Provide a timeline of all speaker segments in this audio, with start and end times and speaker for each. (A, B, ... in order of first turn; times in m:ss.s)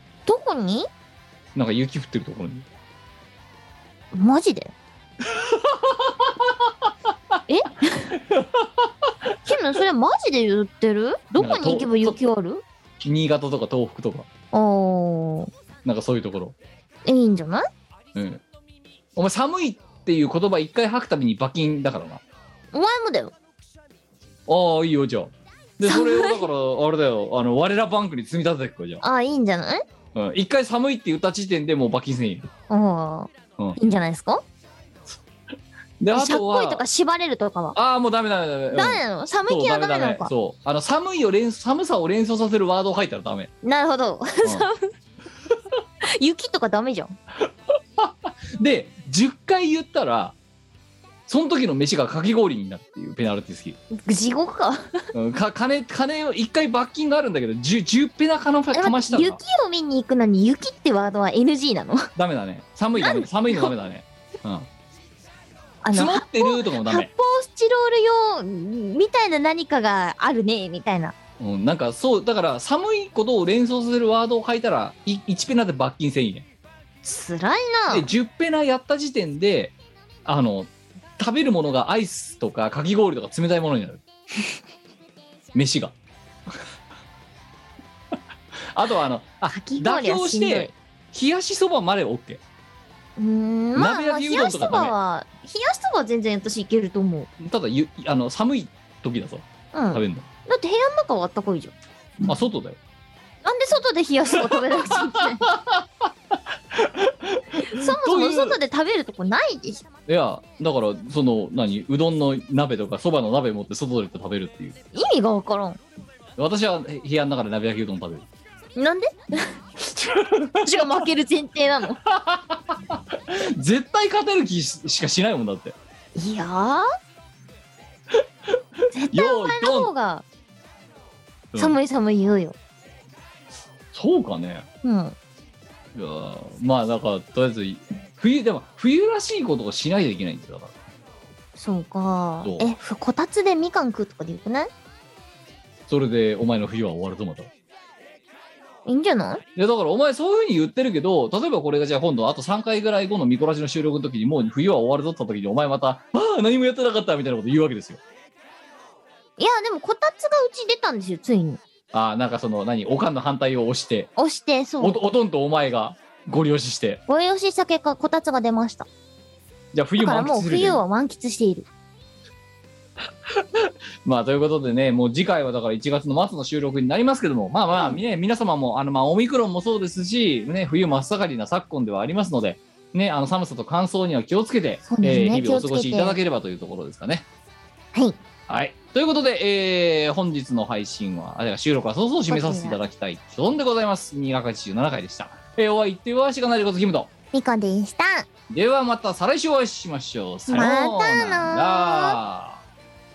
0:00.2-0:00.9 A
0:01.5-0:02.7 B
0:04.1-0:04.7 A
0:05.2-0:07.4 B
0:07.5-0:08.2 A
0:08.2-0:09.1 B
0:09.4-0:12.6 A
0:11.4-0:12.2 B
0:13.0-0:14.3 B
0:14.5-0:15.5 A
0:15.8-0:16.6 B
0:17.0-0:17.6 A
0:18.1-0:18.4 B
0:19.2-0:22.2 B
0:22.7-0:23.3 A
0:24.5-0:29.0 B
0:25.8-0:26.4 A
0:29.0-0:29.8 A
0:30.1-0:32.5 B
0:32.7-0:34.4 A
0:36.0-0:36.8 B
0:36.1-0:37.8 A
0:37.7-0:43.5 B
0:38.7-0:40.3 A
0:43.6-0:44.9 A
0:44.4-0:44.7 B
0:46.0-0:47.2 A
0:47.4-0:50.4 B
0:51.3-0:53.8 B
0:53.9-0:55.1 A
0:55.1-0:59.4 B
0:58.7-1:02.1 A
1:02.2-1:04.7 B
1:03.0-1:03.7 A
1:05.8-1:11.1 A
1:05.9-1:07.1 B
1:11.4-1:16.4 B
1:17.0-1:18.1 A
1:17.9-1:19.7 B
1:20.2-1:24.0 B
1:25.5-1:25.9 B
1:28.6-1:32.4 B
1:29.5-1:30.7 A
1:33.2-1:37.3 A
1:33.7-1:34.9 B
1:37.4-1:40.3 B
1:39.7-1:41.7 A
1:42.2-1:42.8 B
1:43.4-1:45.5 A
1:44.3-1:48.6 B
1:47.7-1:49.8 A
1:50.1-1:54.8 B
1:54.9-1:55.8 A
1:56.4-1:58.3 B
1:58.8-1:59.5 A
1:59.8-2:01.1 B
2:00.6-2:02.0 A
2:02.0-2:05.8 B
2:06.2-2:06.8 A
2:08.1-2:09.9 B
2:08.9-2:10.2 A
2:11.6-2:12.6 A
2:13.9-2:14.7 B
2:14.8-2:15.2 A
2:15.9-2:20.7 B
2:21.6-2:24.7 A
2:25.9-2:27.5 B
2:28.8-2:29.4 A
2:29.6-2:38.0 B
2:39.4-2:41.6 A
2:41.9-2:44.1 B
2:44.2-2:45.0 A
2:44.8-2:47.0 B
2:47.1-2:48.9 A
2:49.7-2:50.8 B
2:50.0-2:51.7 A
2:53.2-3:07.2 B
3:04.9-3:06.2 A
3:08.5-3:17.1 B
3:12.3-3:12.8 A
3:17.3-3:18.3 A
3:18.5-3:22.6 B
3:20.5-3:22.2 A